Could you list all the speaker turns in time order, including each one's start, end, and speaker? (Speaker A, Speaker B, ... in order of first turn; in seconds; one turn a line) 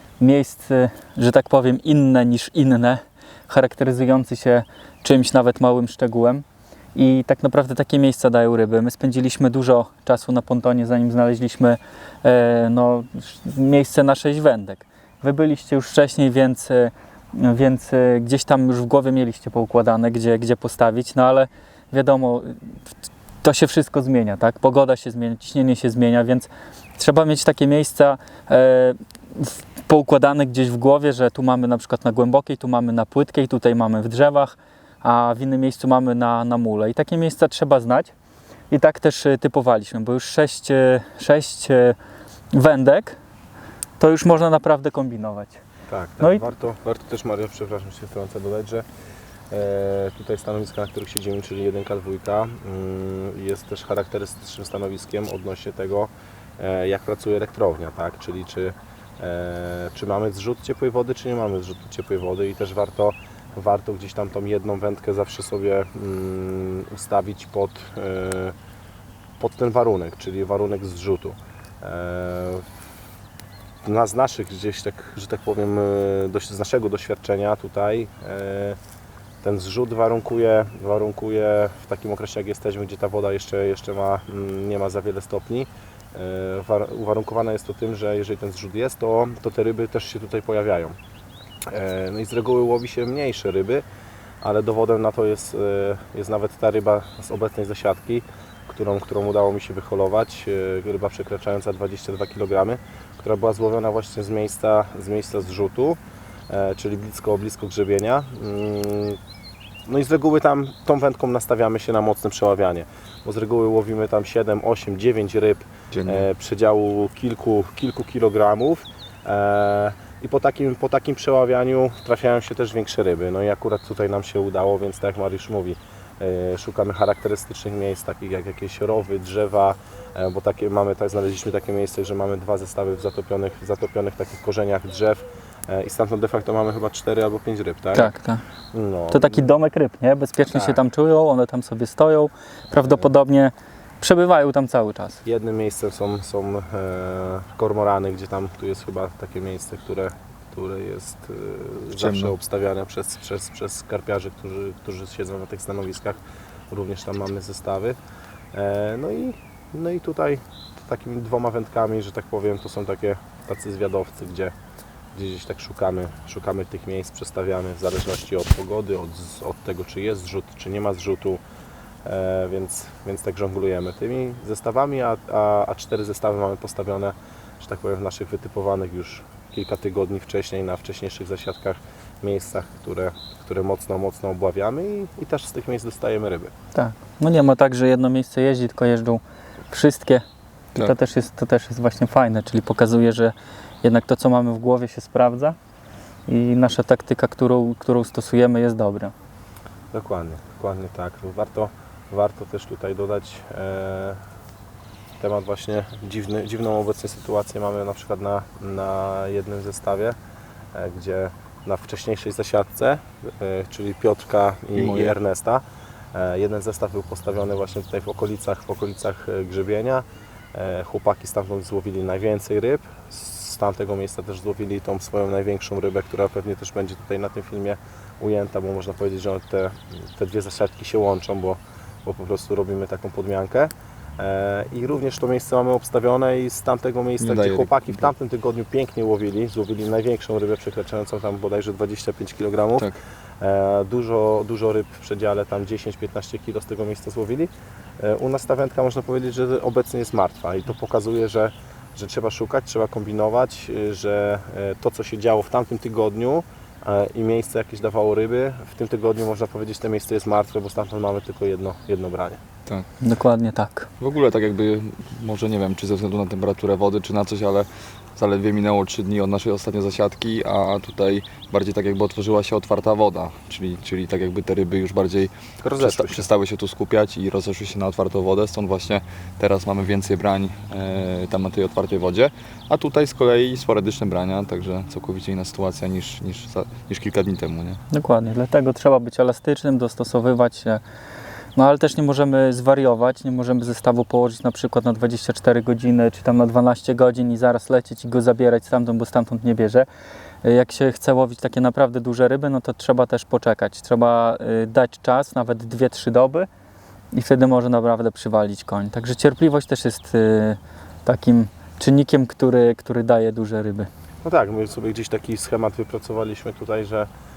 Speaker A: 0.2-22.6
Speaker A: 23.4-38.1
Speaker A: 38.7-42.0
Speaker A: 42.5-43.2
Speaker A: 44.0-45.6
Speaker B: 45.9-48.9
Speaker B: 49.5-68.5
Speaker B: 69.4-72.7
Speaker B: 73.8-78.8
Speaker B: 79.4-91.0
Speaker B: 91.7-93.8
Speaker B: 94.4-109.2
Speaker B: 109.9-138.1
Speaker C: 115.9-116.3
Speaker A: 137.9-138.4
Speaker B: 138.7-139.5
Speaker A: 139.1-145.2
Speaker B: 140.5-140.8
Speaker B: 145.2-158.0
Speaker C: 151.9-152.4
Speaker B: 158.5-164.5
Speaker B: 165.1-171.4
Speaker B: 172.1-186.5
Speaker A: 186.8-190.2
Speaker A: 190.8-195.6
Speaker A: 196.3-199.1
Speaker B: 199.9-204.2
Speaker B: 205.2-210.2
Speaker B: 210.7-215.6
Speaker C: 214.8-215.2
Speaker B: 216.1-262.4
Speaker C: 237.2-238.1
Speaker A: 263.0-263.9
Speaker C: 264.0-287.8
Speaker B: 275.6-276.3
Speaker A: 287.9-290.8
Speaker A: 291.6-299.9
Speaker A: 300.4-306.5
Speaker A: 307.1-313.9
Speaker B: 314.2-317.1